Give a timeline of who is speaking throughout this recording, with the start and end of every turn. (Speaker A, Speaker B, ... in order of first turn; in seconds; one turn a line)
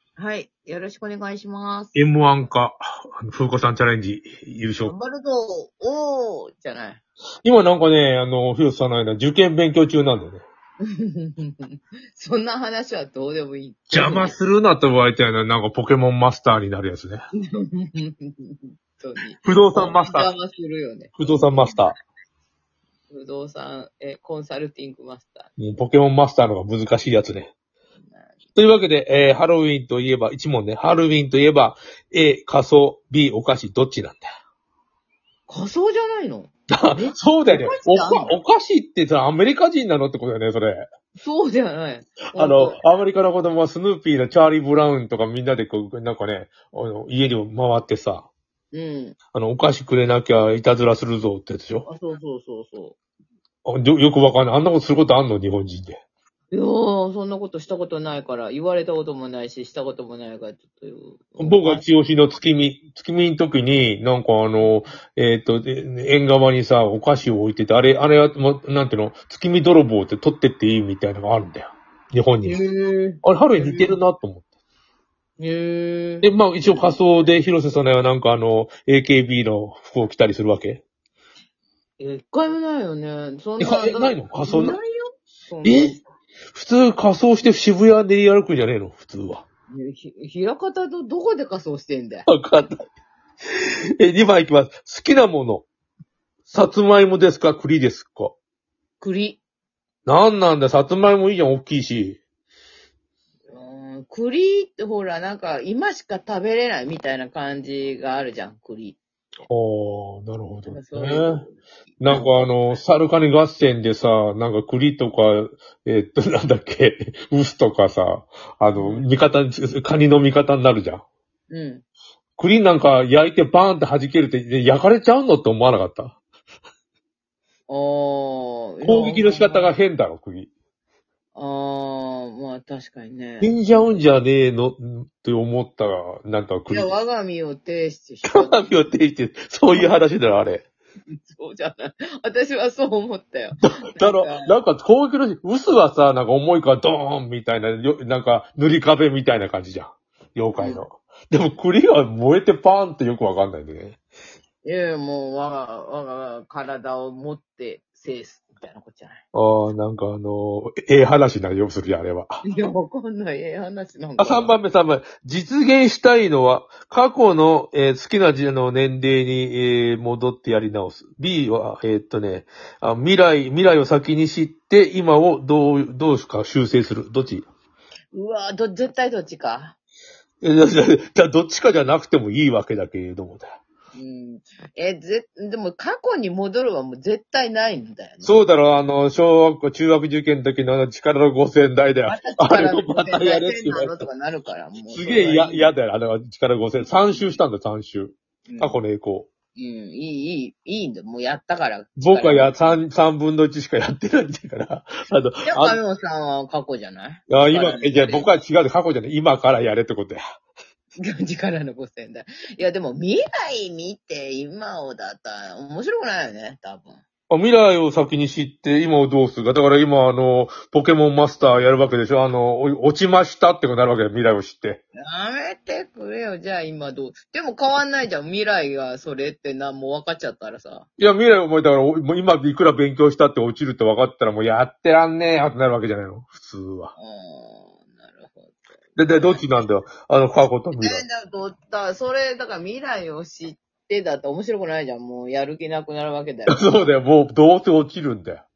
Speaker A: 0.2-2.5
Speaker B: 1.9-4.9
Speaker A: 4.8-7.0
Speaker B: 7.4-10.4
Speaker A: 10.8-14.3
Speaker B: 13.9-17.2
Speaker A: 17.4-21.9
Speaker B: 19.4-20.3
Speaker B: 21.1-22.0
Speaker A: 23.1-25.5
Speaker B: 25.6-27.5
Speaker A: 28.0-28.4
Speaker B: 28.5-34.3
Speaker A: 35.5-38.4
Speaker B: 36.7-40.8
Speaker A: 41.2-42.8
Speaker B: 42.4-48.3
Speaker A: 48.7-49.2
Speaker B: 49.3-51.9
Speaker A: 51.8-53.0
Speaker B: 53.6-56.0
Speaker A: 56.5-61.8
Speaker B: 61.4-72.6
Speaker A: 72.4-74.0
Speaker B: 73.2-74.4
Speaker A: 75.4-77.0
Speaker B: 76.2-80.8
Speaker A: 82.0-86.0
Speaker B: 83.6-84.8
Speaker B: 85.6-86.0
Speaker B: 86.5-89.4
Speaker A: 89.7-92.3
Speaker B: 92.2-92.8
Speaker B: 94.0-95.7
Speaker B: 96.5-98.3
Speaker A: 99.0-99.4
Speaker B: 100.0-102.2
Speaker A: 103.5-109.0
Speaker B: 109.5-111.4
Speaker A: 110.7-111.5
Speaker B: 112.0-121.0
Speaker A: 112.1-112.4
Speaker A: 118.7-119.0
Speaker A: 121.5-121.8
Speaker B: 122.4-126.2
Speaker A: 127.7-129.7
Speaker B: 128.8-130.5
Speaker A: 131.3-133.9
Speaker B: 133.4-136.9
Speaker A: 136.7-138.6
Speaker B: 138.2-140.6
Speaker A: 141.2-144.6
Speaker B: 143.6-154.0
Speaker A: 154.6-159.2
Speaker B: 159.3-162.4
Speaker A: 162.4-164.6
Speaker B: 164.2-177.4
Speaker A: 178.1-179.8
Speaker B: 180.4-183.6
Speaker A: 183.9-188.4
Speaker B: 188.2-194.1
Speaker A: 192.1-195.7
Speaker B: 194.9-199.3
Speaker A: 198.5-198.8
Speaker A: 199.6-202.8
Speaker B: 202.0-205.8
Speaker A: 205.4-208.3
Speaker B: 207.3-210.2
Speaker A: 211.0-217.0
Speaker B: 217.3-224.8
Speaker A: 225.0-230.8
Speaker B: 231.0-236.9
Speaker A: 236.9-239.4
Speaker B: 238.9-241.0
Speaker A: 240.8-246.8
Speaker B: 246.5-248.4